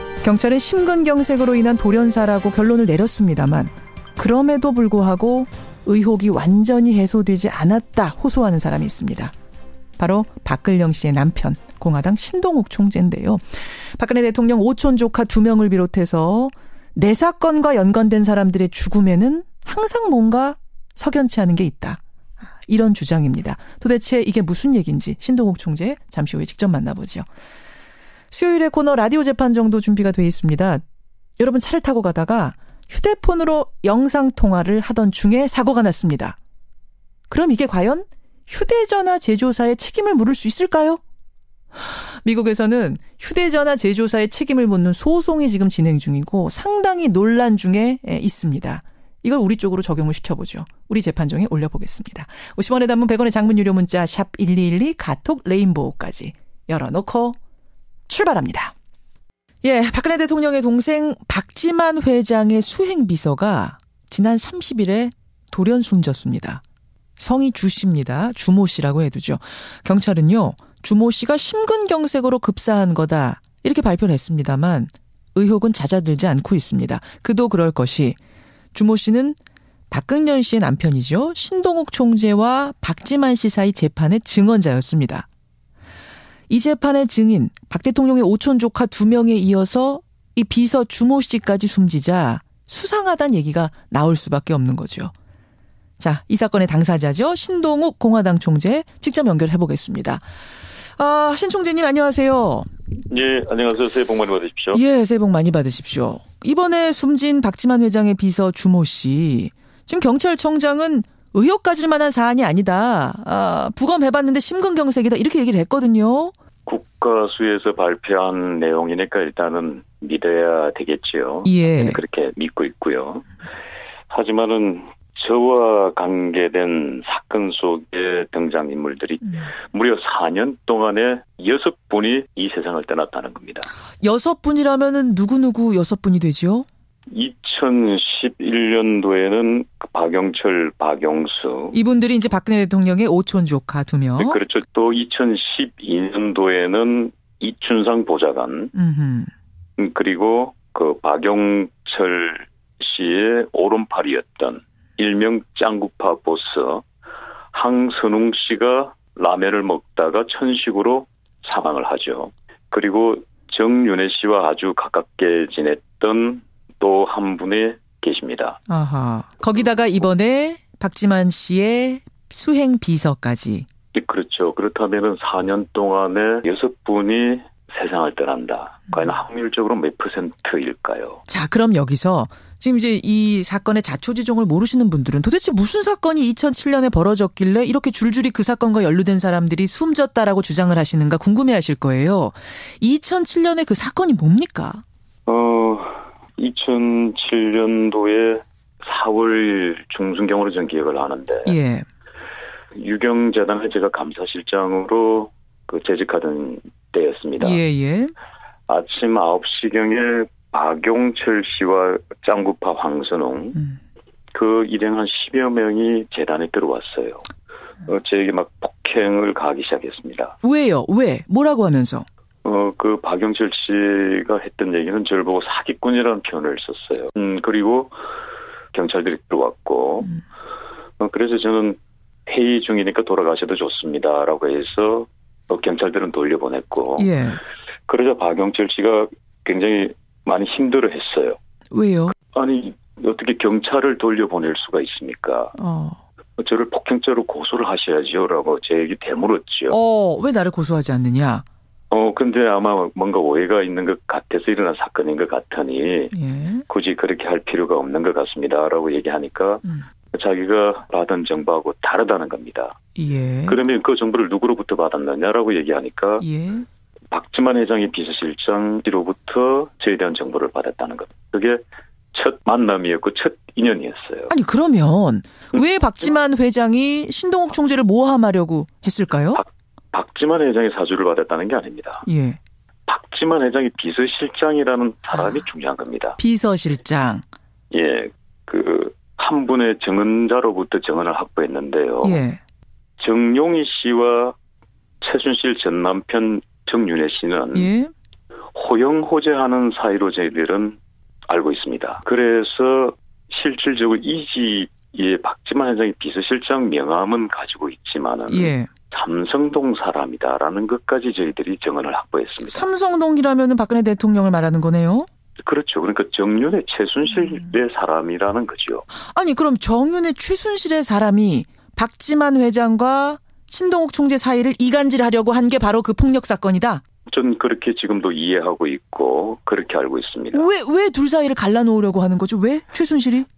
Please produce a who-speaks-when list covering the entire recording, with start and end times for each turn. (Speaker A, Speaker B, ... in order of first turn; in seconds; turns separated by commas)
Speaker A: 0.2-9.3, Speaker A: 10.0-13.4, Speaker A: 14.0-22.0, Speaker A: 22.6-27.3, Speaker A: 28.3-30.8, Speaker A: 31.4-36.4, Speaker A: 37.3-41.0, Speaker A: 41.8-57.4, Speaker A: 58.1-58.7, Speaker A: 59.6-66.6, Speaker A: 67.2-78.2, Speaker A: 78.7-79.4, Speaker A: 79.9-85.3, Speaker A: 86.5-95.1, Speaker A: 96.0-100.2, Speaker A: 101.0-102.7, Speaker B: 103.1-104.8, Speaker A: 104.7-116.3, Speaker B: 116.7-123.3, Speaker A: 121.5-122.0, Speaker B: 124.1-133.7, Speaker A: 134.0-136.7, Speaker B: 137.1-141.8, Speaker A: 141.7-144.4, Speaker B: 144.2-148.7, Speaker A: 148.7-149.3, Speaker B: 149.8-156.8, Speaker B: 157.5-168.6, Speaker A: 168.7-173.7, Speaker B: 173.9-181.2, Speaker A: 181.3-194.8, Speaker B: 195.3-201.5, Speaker A: 201.5-201.9, Speaker B: 202.8-207.6, Speaker A: 207.4-208.1, Speaker B: 208.7-213.6, Speaker B: 214.3-217.3, Speaker B: 217.9-220.3, Speaker A: 220.4-222.1, Speaker B: 222.4-227.9, Speaker B: 228.7-230.1, Speaker B: 231.0-237.1, Speaker A: 237.0-237.4, Speaker B: 237.9-241.4, Speaker A: 241.7-242.1, Speaker B: 242.3-245.5, Speaker A: 245.6-246.0, Speaker B: 246.4-249.8, Speaker A: 249.7-251.4, Speaker B: 251.9-256.1, Speaker A: 256.1-256.6, Speaker B: 256.7-259.6, Speaker B: 260.1-262.8, Speaker A: 263.0-263.6, Speaker B: 263.5-266.2, Speaker A: 266.2-266.7, Speaker B: 267.1-271.6, Speaker B: 272.1-274.3, Speaker A: 274.3-279.4, Speaker B: 279.4-282.1, Speaker A: 282.1-282.4, Speaker B: 282.9-286.2, Speaker A: 286.2-287.2, Speaker B: 287.7-292.2, Speaker A: 292.0-292.4, Speaker B: 293.0-294.4, Speaker B: 295.0-297.7, Speaker A: 297.5-297.9, Speaker B: 298.6-312.7, Speaker A: 308.3-308.7, Speaker A: 312.5-315.1, Speaker B: 315.5-318.9, Speaker A: 319.0-326.8, Speaker B: 327.1-330.5, Speaker A: 330.3-333.3